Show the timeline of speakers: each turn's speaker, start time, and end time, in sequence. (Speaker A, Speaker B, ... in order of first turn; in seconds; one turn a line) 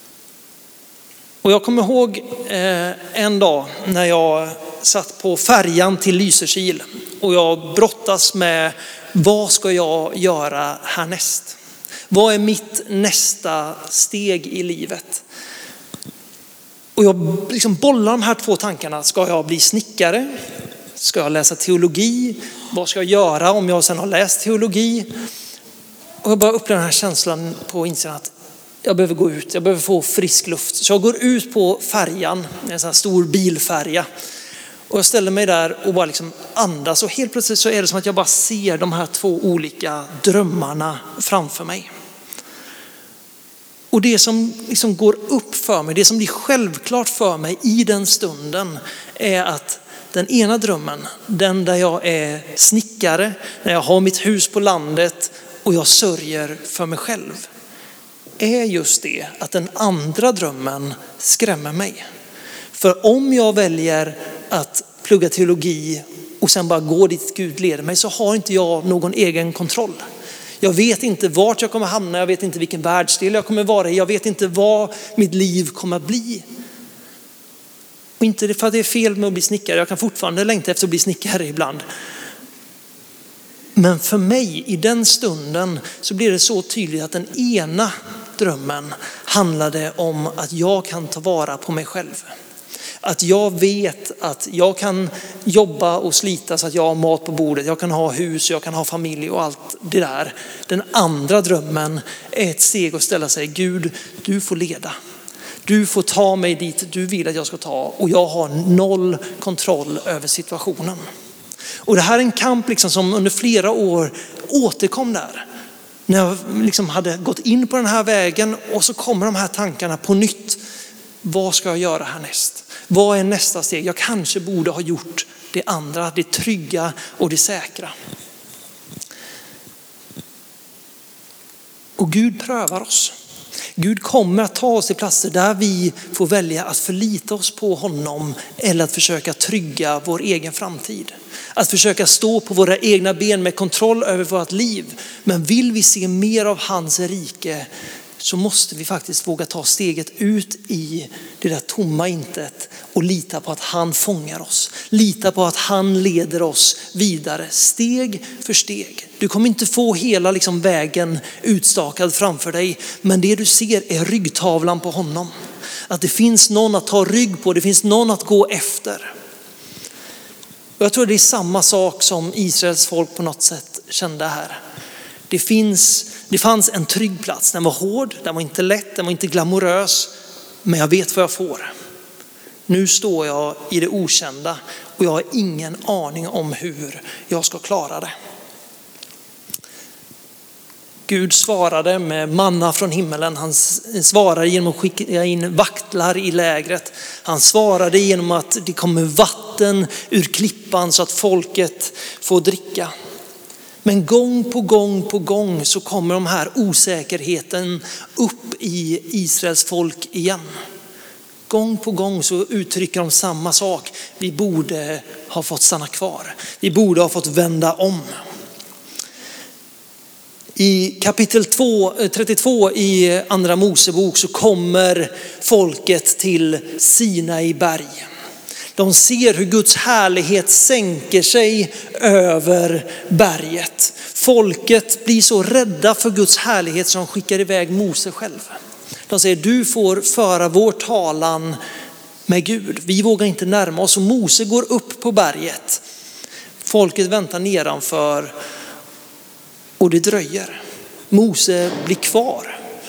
Speaker A: 1.4-11.6
Speaker A: 12.1-15.2
Speaker A: 16.9-20.3
Speaker A: 21.0-25.1
Speaker A: 26.2-28.3
Speaker A: 28.8-34.0
Speaker A: 34.9-41.9
Speaker A: 43.9-57.5
Speaker A: 58.4-62.0
Speaker A: 62.7-70.0
Speaker A: 70.6-76.4
Speaker A: 78.2-81.8
Speaker A: 83.8-92.3
Speaker A: 93.0-104.9
Speaker A: 105.7-111.0
Speaker A: 111.8-115.4
Speaker A: 116.1-120.6
Speaker A: 121.2-127.9
Speaker A: 132.0-133.1
Speaker A: 133.8-147.7
Speaker A: 148.2-165.3
Speaker A: 165.9-169.1
Speaker A: 170.8-174.6
Speaker A: 175.3-180.1
Speaker A: 180.6-181.7
Speaker A: 182.7-188.1
Speaker A: 191.1-202.9
Speaker A: 203.8-210.4
Speaker A: 211.5-218.1
Speaker A: 220.6-228.1
Speaker A: 228.8-238.5
Speaker A: 239.1-241.6
Speaker A: 242.3-245.8
Speaker A: 246.6-248.3
Speaker A: 249.8-250.6
Speaker A: 251.1-252.6